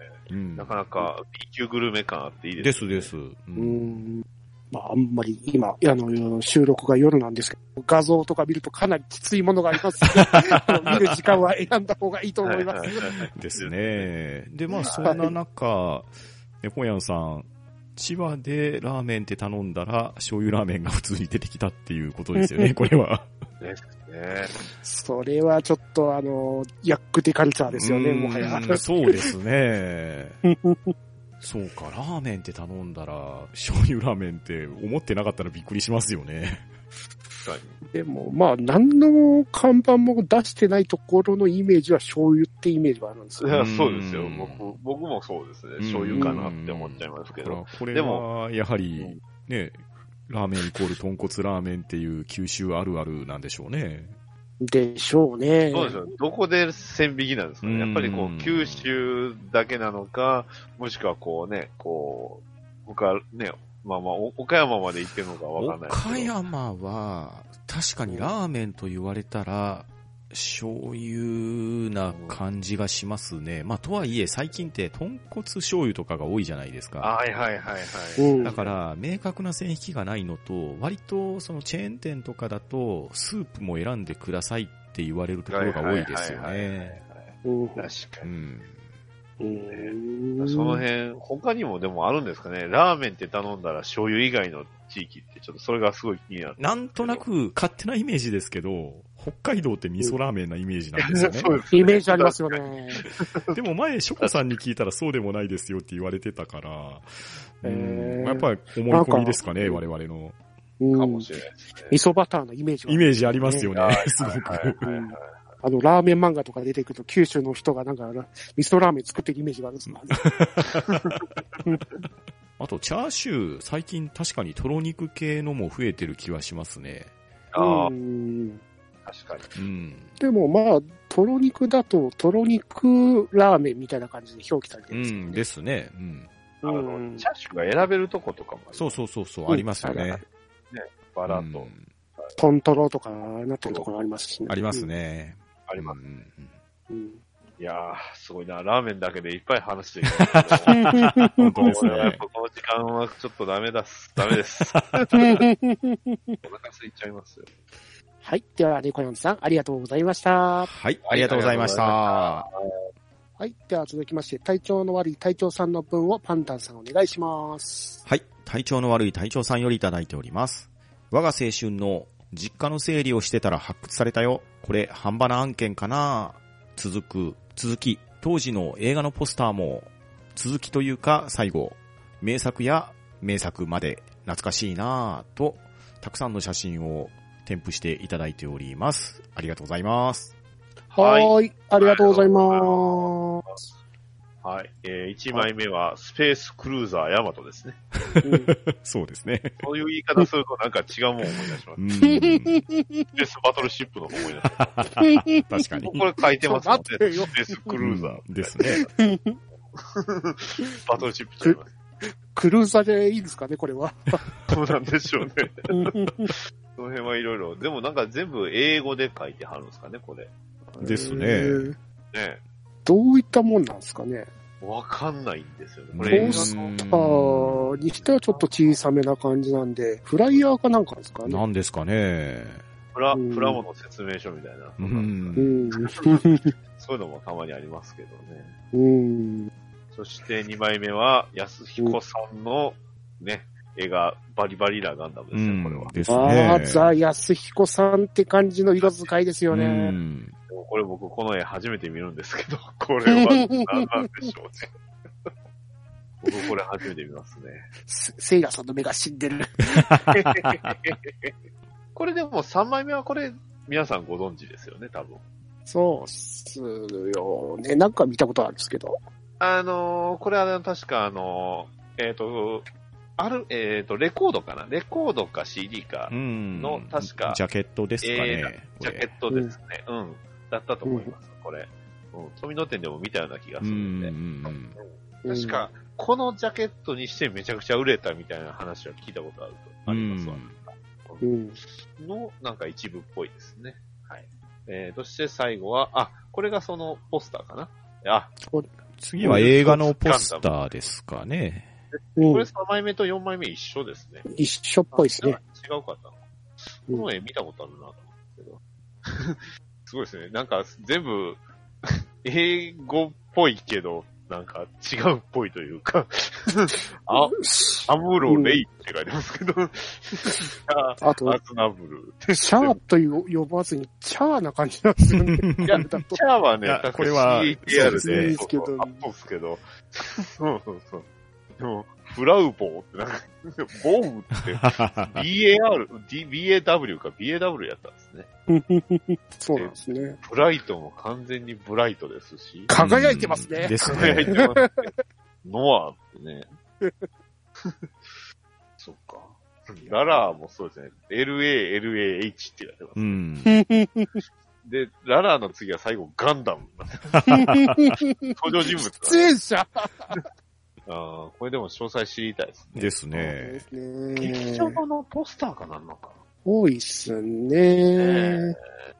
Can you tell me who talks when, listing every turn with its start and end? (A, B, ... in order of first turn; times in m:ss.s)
0:00.3-0:01.0 A
0:00.5-0:03.1 B
0:02.6-0:04.0 A
0:03.6-0:13.1 C
0:10.2-0:11.1 A
0:12.4-0:14.1 B
0:13.3-0:23.3 A
0:14.8-0:15.3 B
0:14.8-0:15.3 C
0:22.4-0:22.7 C
0:23.6-0:24.6 B
0:24.6-0:29.3 C
0:27.7-0:30.4 A
0:30.4-0:30.9 C
0:31.4-0:36.7 A
0:37.4-0:37.8 B
0:37.9-0:43.5 C
0:43.4-0:48.2 B
0:43.5-0:44.8 A
0:45.8-0:54.1 A
0:46.2-0:46.5 C
0:49.0-0:49.2 B
0:54.6-0:56.0 C
0:55.7-1:06.3 B
0:57.6-0:58.9 A
1:05.6-1:17.1 A
1:08.1-1:08.3 C
1:12.1-1:12.4 B
1:17.0-1:18.8 B
1:18.2-1:18.6 C
1:18.4-1:27.0 A
1:25.5-1:28.3 B
1:27.4-1:27.9 C
1:28.2-1:28.7 A
1:29.4-1:30.8 C
1:29.7-1:37.2 B
1:36.6-1:41.6 A
1:41.0-1:43.6 B
1:41.7-1:43.0 C
1:43.5-1:47.1 A
1:44.2-1:44.5 B
1:47.6-1:50.4 A
1:47.6-1:49.8 C
1:50.8-1:51.3 C
1:50.9-1:52.0 B
1:51.9-1:53.7 C
1:52.9-1:54.8 A
1:53.7-1:55.2 B
1:54.8-2:00.3 C
1:59.9-2:01.0 A
2:00.8-2:01.2 B
2:02.6-2:07.1 A
2:07.5-2:07.9 B
2:07.6-2:08.6 C
2:09.0-2:09.5 B
2:09.5-2:10.1 A
2:10.2-2:15.4 C
2:14.9-2:16.3 A
2:16.6-2:17.3 C
2:16.6-2:19.0 B
2:18.7-2:20.2 A
2:19.5-2:20.2 C
2:20.7-2:21.7 B
2:21.3-2:21.8 A
2:22.4-2:24.9 C
2:24.5-2:26.5 A
2:25.7-2:26.0 B
2:26.9-2:27.2 C
2:27.6-2:30.9 B
2:30.4-2:32.2 A
2:30.7-2:31.9 C
2:31.6-2:35.4 B
2:35.1-2:36.4 C
2:36.4-2:37.5 B
2:38.2-2:40.7 C
2:40.6-2:42.5 A
2:41.0-2:42.5 B
2:43.4-2:48.0 C
2:48.0-3:10.3 A
3:10.9-3:13.6 B
3:10.9-3:13.5 C
3:14.4-3:17.8 B
3:18.1-3:19.6 A
3:18.2-3:18.5 C
3:19.6-3:21.8 B
3:21.8-3:22.6 A
3:22.0-3:23.1 C
3:23.2-3:24.8 B
3:24.8-3:26.0 A
3:25.0-3:25.6 C
3:25.8-3:28.8 B
3:26.4-3:27.8 C
3:27.8-3:28.8 A
3:28.6-3:29.4 C
3:29.7-3:31.7 B
3:31.4-3:34.2 C
3:34.5-3:40.8 B
3:35.7-3:36.3 C
3:40.8-3:41.8 C
3:40.8-3:41.7 A
3:42.1-3:42.4 B
3:42.8-3:44.3 C
3:44.6-3:46.8 B
3:45.9-3:47.7 A
3:46.1-3:51.4 C
3:48.0-3:48.8 B
3:51.2-3:52.6 A
3:52.9-3:58.5 B
3:53.1-3:53.6 C
3:54.8-3:55.6 A
3:55.4-3:56.5 C
3:58.7-3:59.5 C
3:59.9-4:06.0 B
4:05.3-4:06.9 A
4:06.0-4:10.0 C
4:08.8-4:09.1 B
4:09.5-4:10.3 A
4:10.5-4:14.7 B
4:13.1-4:14.2 C
4:16.2-4:17.7 B
4:17.8-4:19.9 C
4:19.7-4:20.7 A
4:20.1-4:21.3 B
4:21.9-4:25.2 B
4:25.6-4:29.0 C
4:29.4-4:32.6 B
4:33.2-4:37.4 B
4:36.1-4:39.1 A
4:38.0-4:51.3 B
4:39.3-4:39.6 C
4:40.8-4:41.1 C
4:43.6-4:44.8 A
4:45.2-4:45.7 C
4:49.9-4:50.6 A
4:51.2-4:51.6 C
4:51.8-4:58.3 B
4:58.5-4:59.6 C
4:59.0-5:01.7 A
4:59.2-5:00.9 B
5:01.9-5:04.3 B
5:02.2-5:02.5 C
5:04.3-5:05.4 C
5:04.9-5:22.8 B
5:17.3-5:18.6 C
5:21.0-5:21.4 C
5:22.3-5:26.2 C
5:25.3-5:25.7 A
5:25.6-5:31.0 B
5:26.6-5:28.4 A
5:27.7-5:29.0 C
5:31.6-5:38.3 B
5:34.6-5:35.2 A
5:38.5-5:40.2 C
5:39.5-5:42.7 B
5:42.7-5:44.9 C
5:42.8-5:44.4 A
5:43.8-5:44.9 B
5:45.4-5:46.5 B
5:47.6-5:48.2 B
5:48.8-5:53.2 B
5:53.0-5:53.5 A
5:53.4-5:54.2 C
5:54.6-5:57.2 B
5:57.2-5:57.9 A
5:57.3-6:00.2 C
5:58.3-5:59.3 B
6:00.8-6:03.3 B
6:02.7-6:03.7 A
6:03.3-6:04.8 C
6:04.2-6:06.2 B
6:06.4-6:08.6 C
6:07.9-6:08.5 B